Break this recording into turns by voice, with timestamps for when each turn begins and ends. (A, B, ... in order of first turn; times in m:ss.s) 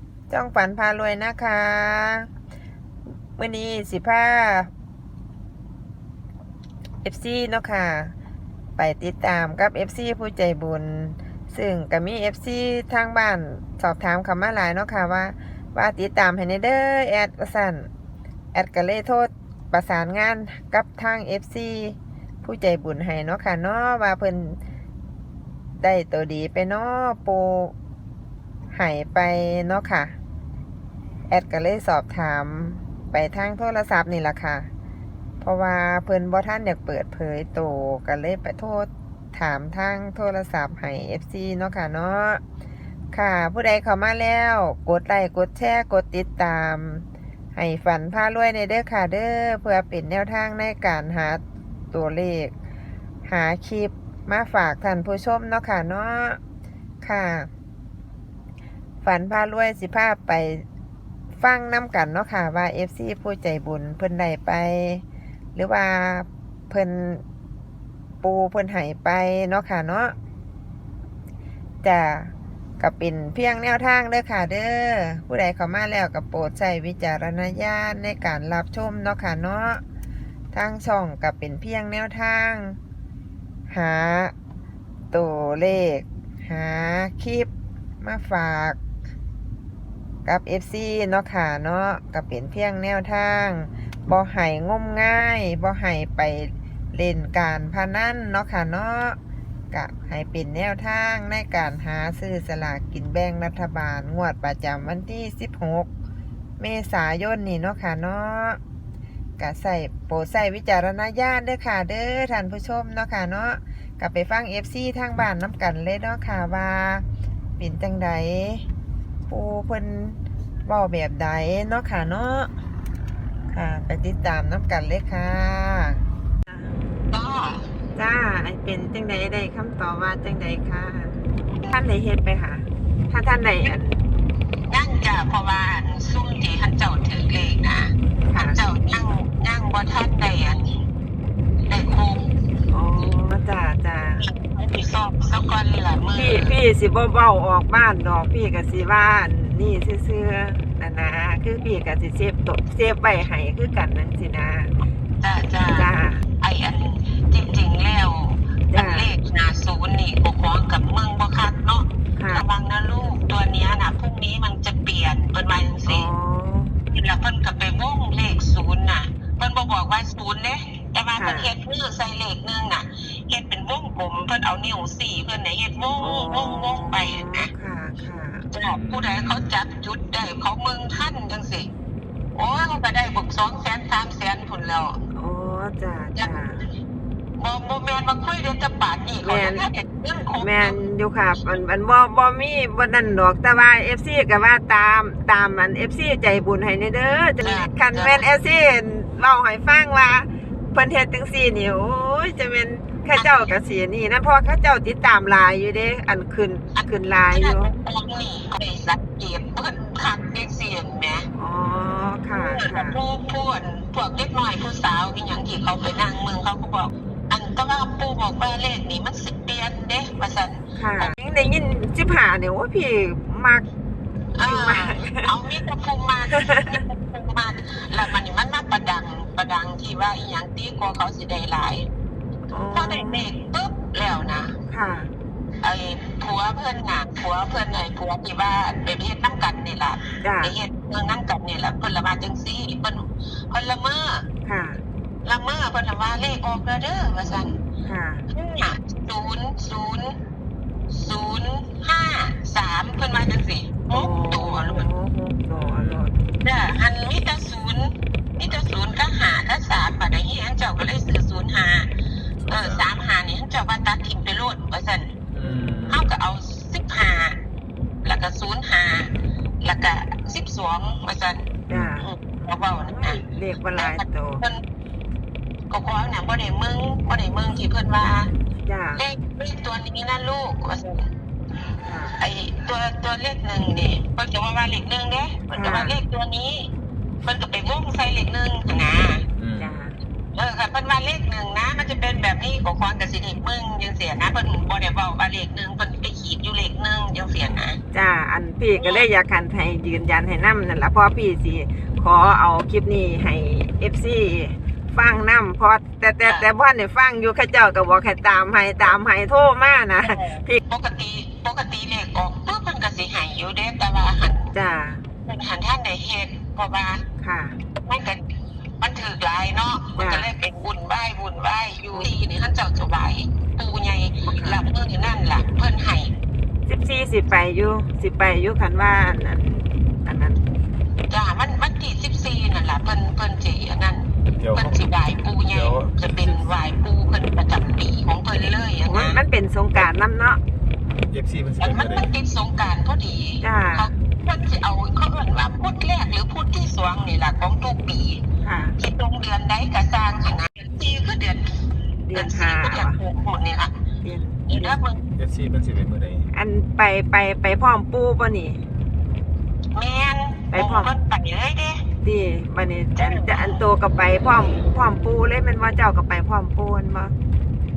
0:00.3-0:02.3 A
0:03.4-0:04.7 A
0:07.0-0:08.1 A
0:08.8-0:17.9 A
0:18.5-0:24.6 A
0:25.8-0:27.7 A
0:28.7-0:30.2 A
0:31.3-0:34.7 A
0:35.4-0:42.4 A
0:43.1-0:52.6 A
0:53.2-0:56.4 A
0:57.0-0:57.5 A
0:59.0-1:00.6 A
1:01.4-1:05.0 A
1:05.6-1:07.2 A
1:08.2-1:10.2 A
1:11.8-1:19.8 A
1:20.5-1:22.8 A
1:23.7-1:24.3 A
1:25.1-1:27.5 A
1:28.0-1:28.8 A
1:30.2-1:39.2 A
1:39.7-1:45.9 A
1:46.6-1:48.6 A
1:49.4-1:57.0 A
1:57.6-1:58.6 A
1:59.3-2:02.5 A
2:03.5-2:06.7 A
2:07.1-2:07.6 B
2:08.0-2:14.0 A
2:14.7-2:20.8 B
2:18.3-2:18.6 A
2:21.7-2:22.3 B
2:22.7-2:24.2 A
2:24.2-2:26.6 B
2:26.1-2:34.7 A
2:35.2-2:46.1 B
2:35.7-2:36.3 A
2:38.7-2:39.1 A
2:42.2-2:42.4 A
2:45.9-2:46.8 A
2:46.9-2:57.5 B
2:51.2-2:51.5 A
2:56.0-2:58.5 A
2:58.5-3:01.7 B
2:58.7-2:59.5 C
3:02.4-3:05.0 B
3:05.1-3:06.6 A
3:06.2-3:06.5 B
3:07.4-3:10.8 B
3:09.2-3:09.6 A
3:10.4-3:27.7 A
3:17.4-3:18.2 B
3:23.2-3:23.5 B
3:26.8-3:31.3 B
3:31.4-3:33.0 A
3:32.3-3:41.2 B
3:40.8-3:43.7 A
3:44.4-3:51.9 B
3:44.4-3:45.3 A
3:46.3-3:46.8 A
3:52.5-3:53.3 A
3:52.7-3:54.6 B
3:54.7-3:55.1 A
3:55.6-4:04.3 B
4:00.2-4:00.6 A
4:04.4-4:04.8 A
4:05.2-4:07.6 B
4:07.8-4:08.3 A
4:08.3-4:10.2 B
4:10.9-4:14.9 B
4:13.9-4:16.2 A
4:15.6-4:16.1 C
4:16.4-4:21.9 B
4:22.4-4:22.9 C
4:22.5-4:25.2 B
4:25.3-4:26.0 C
4:25.4-4:26.0 A
4:25.9-4:27.4 B
4:28.0-4:33.2 B
4:31.7-4:32.0 C
4:31.7-4:34.4 A
4:33.7-4:34.6 B
4:35.7-4:38.3 B
4:38.6-4:39.0 A
4:39.0-4:41.1 B
4:41.8-4:42.2 A
4:42.2-4:46.7 B
4:45.5-4:46.0 A
4:47.2-4:49.3 B
4:49.4-4:49.7 C
4:49.6-4:50.0 A
4:50.3-4:57.8 B
4:57.9-5:10.6 A
4:58.8-4:59.0 B
5:10.0-5:14.5 B
5:14.5-5:15.0 A
5:15.2-5:17.0 B
5:17.2-5:17.6 A
5:17.8-5:18.3 B
5:18.8-5:26.1 B
5:20.0-5:20.3 A
5:24.2-5:24.6 A
5:26.7-5:30.4 A
5:31.1-5:39.2 B
5:34.4-5:34.8 C
5:35.5-5:36.4 C
5:38.9-5:40.4 A
5:41.1-5:42.1 C
5:41.6-5:48.2 B
5:43.4-5:43.9 A
5:48.4-5:48.8 A
5:48.8-5:51.5 B
5:52.1-5:53.0 A
5:52.1-5:53.7 B
5:54.0-5:54.8 A
5:54.5-5:55.1 B
5:55.2-5:56.3 C
5:56.3-5:58.6 A
5:59.7-6:01.8 B
6:00.5-6:00.9 A
6:02.0-6:07.1 A
6:03.0-6:03.6 B